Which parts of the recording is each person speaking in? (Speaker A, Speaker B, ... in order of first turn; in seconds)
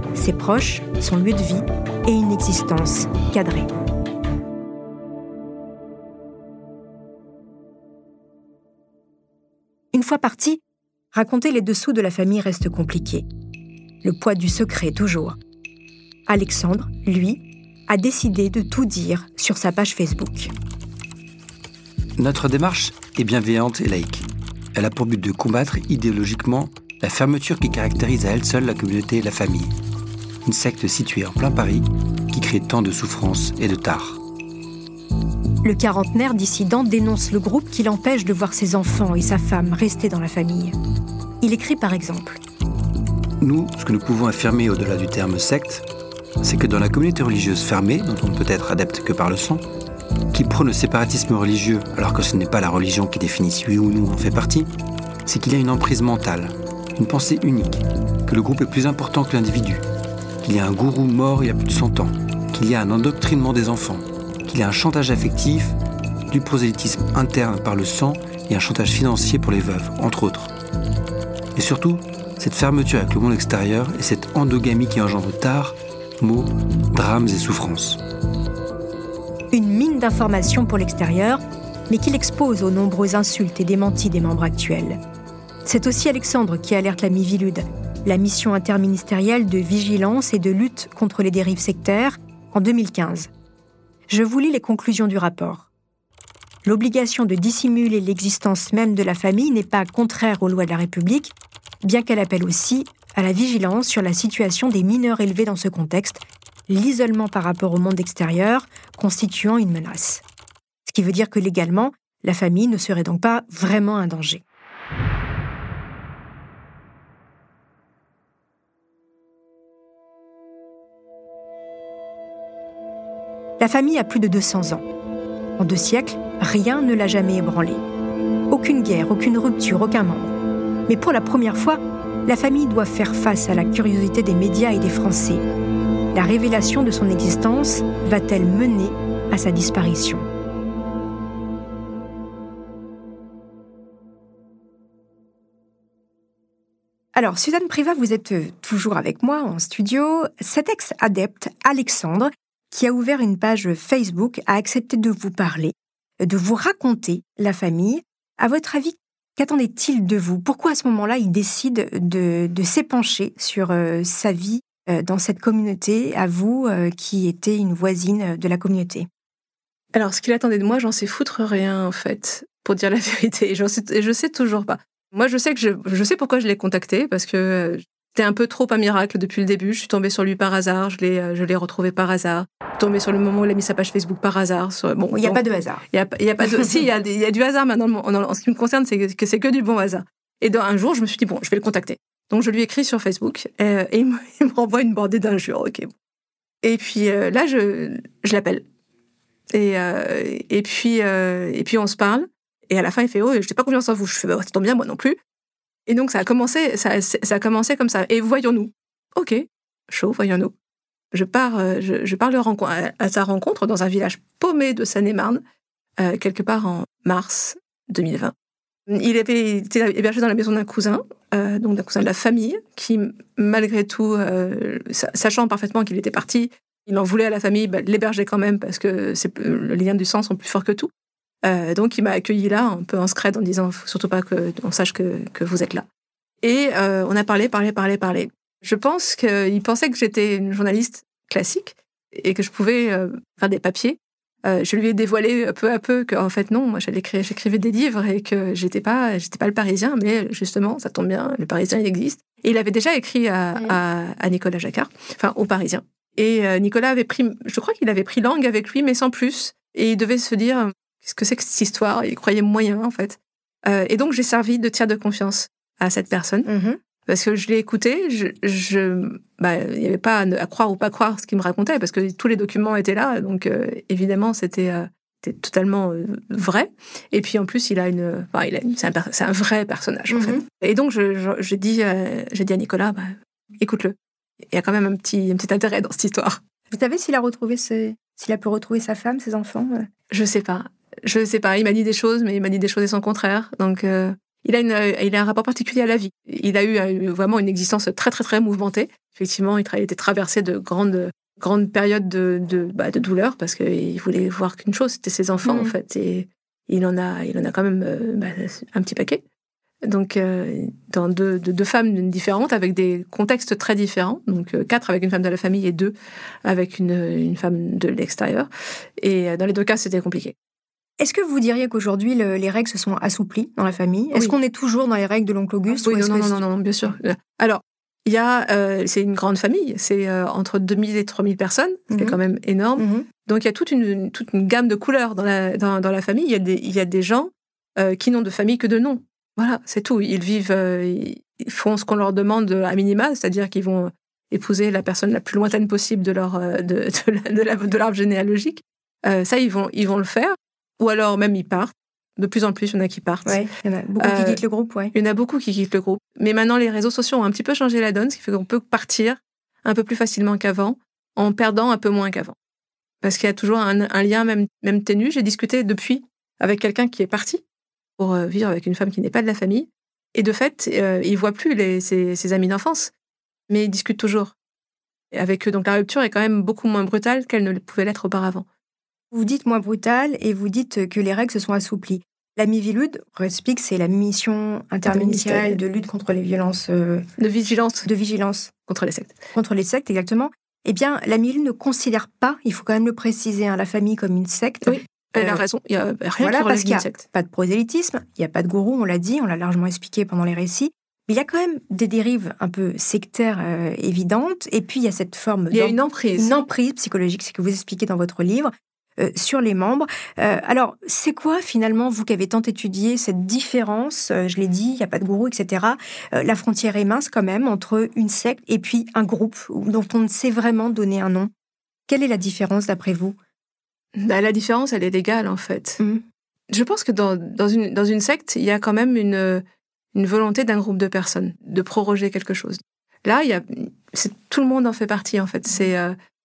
Speaker A: 0.1-3.7, 9.9-10.6, 11.1-13.2, 14.0-15.4, 16.3-20.5, 35.6-40.8, 41.4-42.4, 79.5-85.0, 85.6-93.3, 94.1-95.7, 96.6-110.2, 110.8-114.4, 123.6-124.8, 125.6-127.8, 128.5-130.3, 130.9-135.4, 136.1-140.2, 147.2-169.1, 185.1-185.8, 186.4-186.8, 266.4-266.8, 280.1-280.4, 286.7-289.9, 305.4-305.7, 321.0-326.4, 331.9-332.2, 332.8-333.1, 353.2-354.9, 379.1-387.0, 387.9-388.5, 389.3-395.4, 396.2-421.3, 421.9-423.1
Speaker B: 22.2-29.7, 30.4-34.2, 43.4-45.8, 46.4-49.6, 50.3-54.7, 55.2-59.8, 60.4-65.8, 66.3-70.5, 71.5-78.0
Speaker C: 169.9-195.9, 196.6-198.6, 199.5-205.2, 205.9-210.5, 211.1-215.4, 216.0-218.3, 218.9-230.9, 231.4-235.8, 236.4-266.5, 267.1-283.9, 284.5-286.4, 290.1-309.2, 309.8-315.9, 316.4-320.3, 325.8-353.4, 354.0-354.4, 354.9-362.3, 363.0-367.4, 368.0-372.9, 373.5-374.3, 375.1-378.4, 384.8-385.6, 387.2-387.9, 388.7-389.2, 394.6-397.0, 405.5-406.3, 423.9-425.8, 426.5-429.4, 429.9-435.9